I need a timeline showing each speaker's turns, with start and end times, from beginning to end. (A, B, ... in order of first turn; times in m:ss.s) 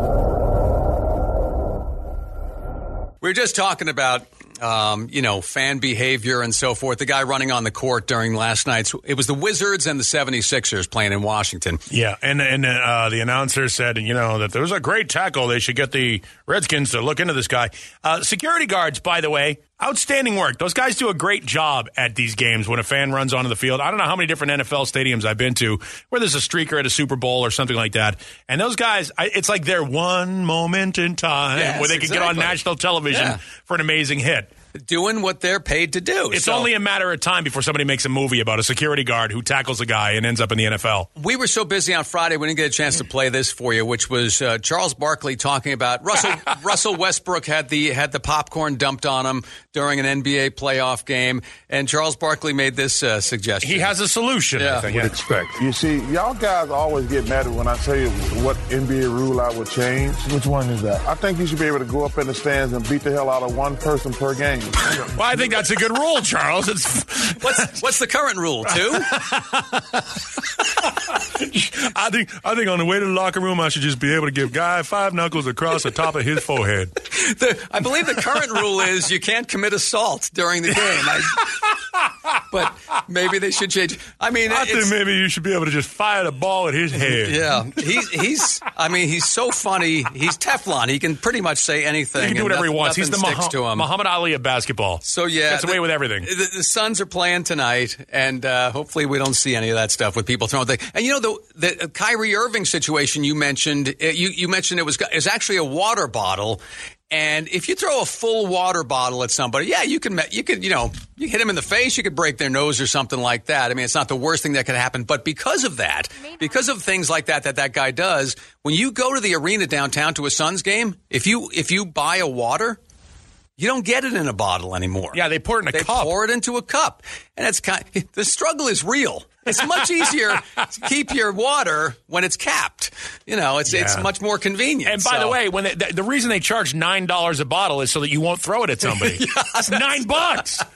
0:03.2-0:11.8 A
0:11.9-0:34.5 B
0:31.5-0:32.6 A
0:33.1-0:33.4 A
0:34.7-0:36.7 A
0:36.3-0:41.1 B
0:41.2-0:53.9 A
0:53.6-0:55.2 B
0:54.6-0:54.9 A
0:54.9-1:05.1 C
1:05.0-1:07.7 B
1:07.4-1:09.1 A
1:08.7-1:16.9 B
1:17.1-1:21.6 A
1:20.8-1:22.4 B
1:22.5-1:24.9 A
1:24.4-1:28.0 B
1:26.9-1:33.9 A
1:32.2-1:36.3 B
1:35.0-2:02.8 A
2:03.6-2:05.2 A
2:05.1-2:06.1 B
2:05.7-2:15.4 A
2:13.7-2:14.1 B
2:14.8-2:20.6 B
2:18.8-2:20.2 A